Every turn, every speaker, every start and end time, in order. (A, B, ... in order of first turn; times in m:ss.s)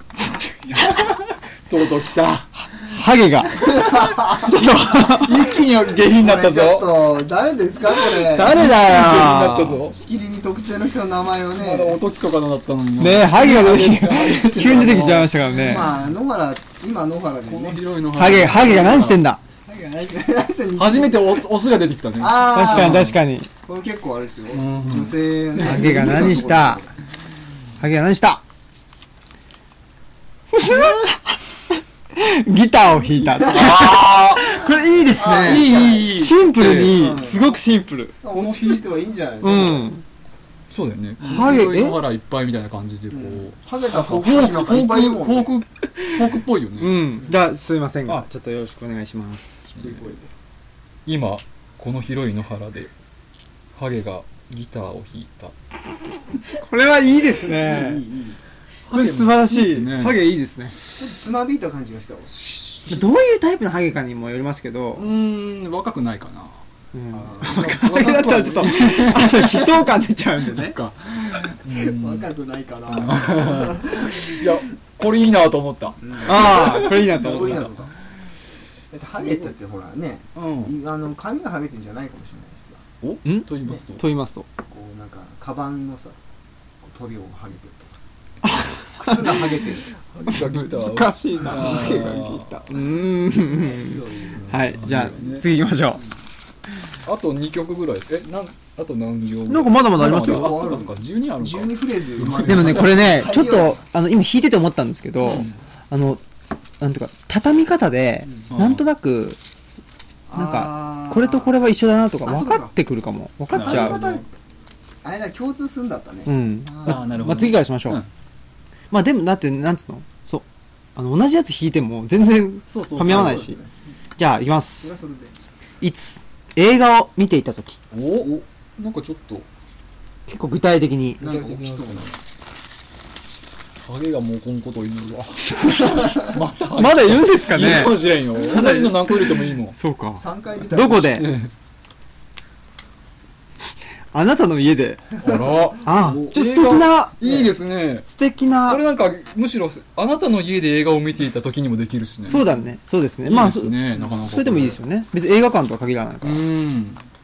0:00.2-0:02.6 A
0:02.8-0:05.4 B
0:03.6-0:04.6 C
0:04.9-0:07.0 A
0:06.0-0:08.6 C
0:08.2-0:09.8 B
0:08.4-0:10.0 A
0:09.9-0:12.0 C
0:11.6-0:16.0 A
0:13.0-0:15.9 B
0:15.5-0:17.8 C
0:17.4-0:19.2 A
0:18.1-0:19.4 B
0:19.7-0:21.4 C
0:20.8-0:23.2 A
0:22.2-0:23.1 C
0:22.5-0:23.5 B
0:23.6-0:26.9 C
0:24.5-0:26.2 A
0:25.6-0:26.8 B
0:27.8-0:28.4 B
0:30.5-0:38.2 B
0:33.2-0:34.6 A
0:35.1-0:36.1 C
0:35.3-0:37.2 A
0:36.8-0:37.5 C
0:38.2-0:39.9 C
0:38.3-0:38.8 A
0:39.4-0:40.0 B
0:40.7-0:47.2 A
0:41.2-0:41.6 C
0:41.2-0:42.0 B
0:43.1-0:45.5 C
0:45.8-0:49.8 B
0:49.7-0:50.0 A
0:49.8-0:50.3 C
0:51.0-0:52.9 A
0:53.7-0:55.5 A
0:56.5-0:58.0 B
0:57.3-0:58.4 C
0:58.9-1:00.3 A
0:58.9-1:00.7 B
1:00.9-1:02.3 C
1:02.4-1:03.0 A
1:02.8-1:05.0 B
1:05.0-1:06.6 A
1:06.9-1:10.8 B
1:07.1-1:09.0 C
1:08.0-1:09.8 A
1:10.4-1:12.3 A
1:11.6-1:14.5 C
1:12.9-1:17.8 A
1:16.0-1:18.0 C
1:16.2-1:17.7 B
1:18.9-1:22.8 C
1:20.3-1:20.7 A
1:23.0-1:24.0 A
1:23.2-1:24.5 B
1:24.7-1:26.2 C
1:26.8-1:28.1 C
1:28.4-1:29.4 B
1:28.9-1:29.9 C
1:29.9-1:32.6 A
1:30.2-1:36.0 B
1:31.4-1:31.8 C
1:33.4-1:35.2 C
1:34.3-1:35.4 A
1:37.0-1:43.0 A
1:39.5-1:40.5 B
1:40.0-1:43.8 C
1:42.4-1:46.2 B
1:45.2-1:45.5 A
1:46.8-1:49.4 B
1:48.5-1:48.8 A
1:50.3-1:51.6 C
1:50.3-1:54.2 B
1:52.2-1:52.7 C
1:53.5-1:54.1 A
1:53.5-1:54.3 C
1:55.0-1:57.2 C
1:56.2-1:58.0 B
1:56.8-1:58.1 A
1:58.9-2:00.4 B
2:01.0-2:03.6 B
2:02.7-2:03.5 A
2:03.0-2:03.7 C
2:04.2-2:05.0 B
2:04.8-2:05.4 C
2:05.8-2:07.8 B
2:07.9-2:09.5 A
2:10.3-2:11.2 B
2:11.2-2:12.1 C
2:11.2-2:12.2 A
2:13.8-2:19.8 A
2:16.7-2:21.3 B
2:20.2-2:21.1 C
2:21.0-2:21.5 A
2:24.1-2:25.0 B
2:25.2-2:28.1 A
2:25.3-2:26.4 C
2:25.8-2:27.2 B
2:27.2-2:27.5 C
2:28.1-2:28.8 B
2:28.6-2:32.4 A
2:32.2-2:36.4 B
2:33.2-2:34.8 A
2:36.2-2:37.0 A